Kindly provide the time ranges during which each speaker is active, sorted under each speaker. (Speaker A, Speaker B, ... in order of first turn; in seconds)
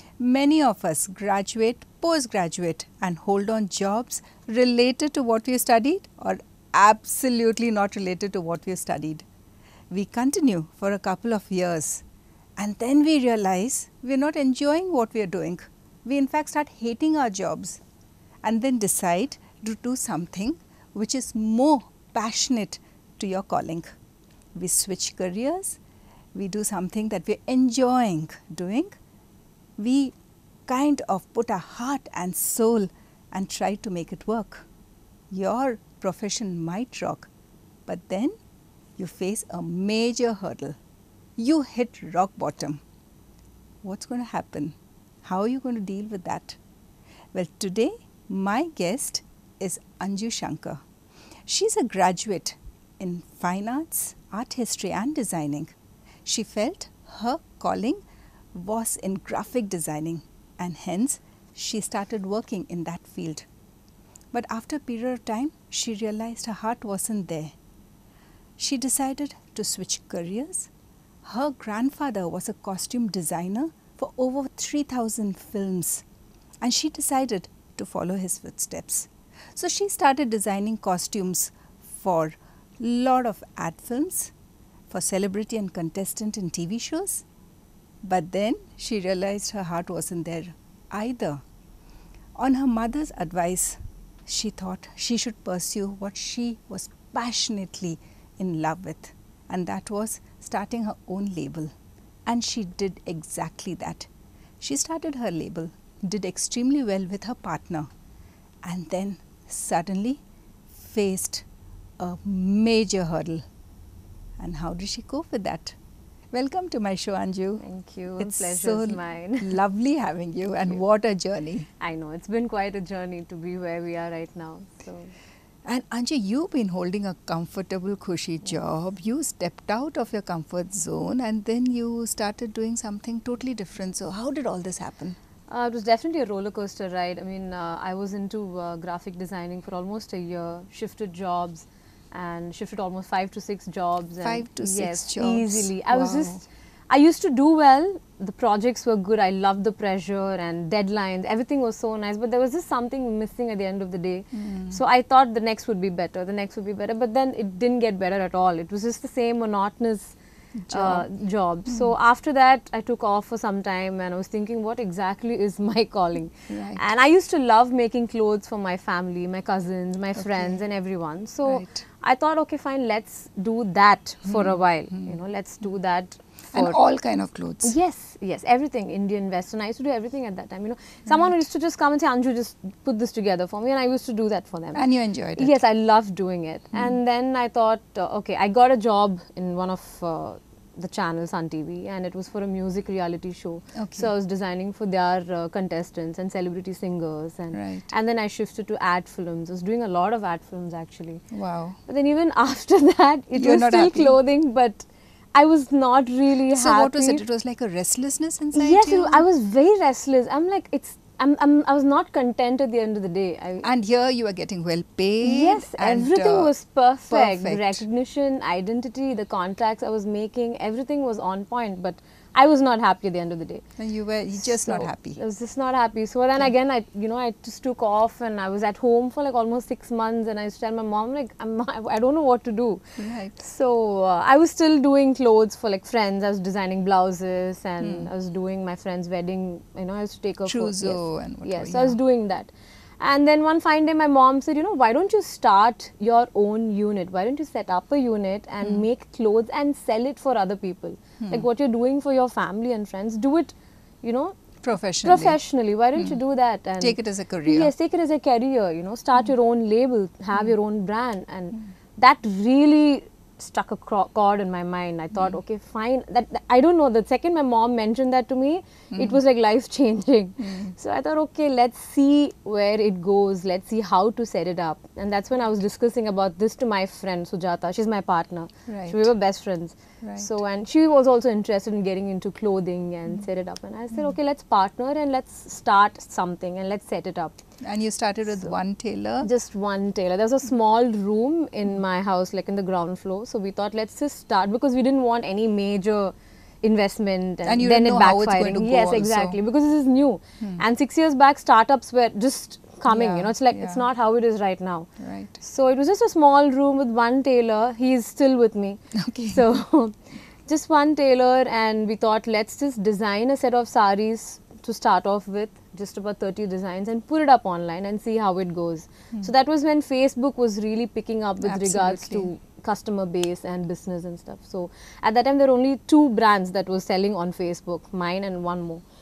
Speaker A: 0.2-9.2, 9.9-12.0, 12.6-17.8, 18.4-23.9, 24.6-25.8, 26.3-29.0, 29.8-30.1, 30.7-34.7, 35.3-37.3, 37.9-38.3, 39.0-40.8, 41.4-42.8, 43.8-46.6, 47.3-50.8, 51.5-58.0, 58.5-63.5, 64.3-67.6, 68.6-70.7, 71.2-76.0, 76.6-84.3, 84.9-87.2, 88.0-91.4, 92.4-101.7, 102.3-104.1, 104.6-107.9, 108.7-110.2, 110.7-111.5, 112.0-113.4, 114.4-115.8, 116.3-117.6, 118.2-121.7, 125.7-135.2, 144.2-146.4, 154.3-154.8, 160.6-161.1, 161.7-161.9, 166.5-166.8, 170.2-170.7, 171.4-171.8, 174.2-175.2, 176.5-177.7, 181.1-181.4, 184.8-185.6, 193.8-194.1, 197.5-197.9, 201.3-201.8, 203.3-204.2, 206.5-209.2, 213.6-216.5, 217.1-217.8, 223.8-225.2, 233.0-233.4, 237.8-238.1, 240.4-242.0, 251.2-251.5, 254.6-255.4, 256.8-257.7, 268.9-269.2, 270.4-270.7, 278.7-279.1, 280.0-280.3, 287.6-289.3, 297.4-299.4, 302.9-303.8, 305.0-305.4, 308.9-309.6, 321.4-322.3
Speaker B: 117.6-119.6, 121.8-125.1, 135.5-160.2, 160.7-176.8, 177.6-184.8, 185.4-201.2, 201.9-207.2, 208.5-213.7, 215.2-223.6, 224.6-232.8, 233.4-254.3, 255.0-287.4, 289.2-304.9, 305.4-328.8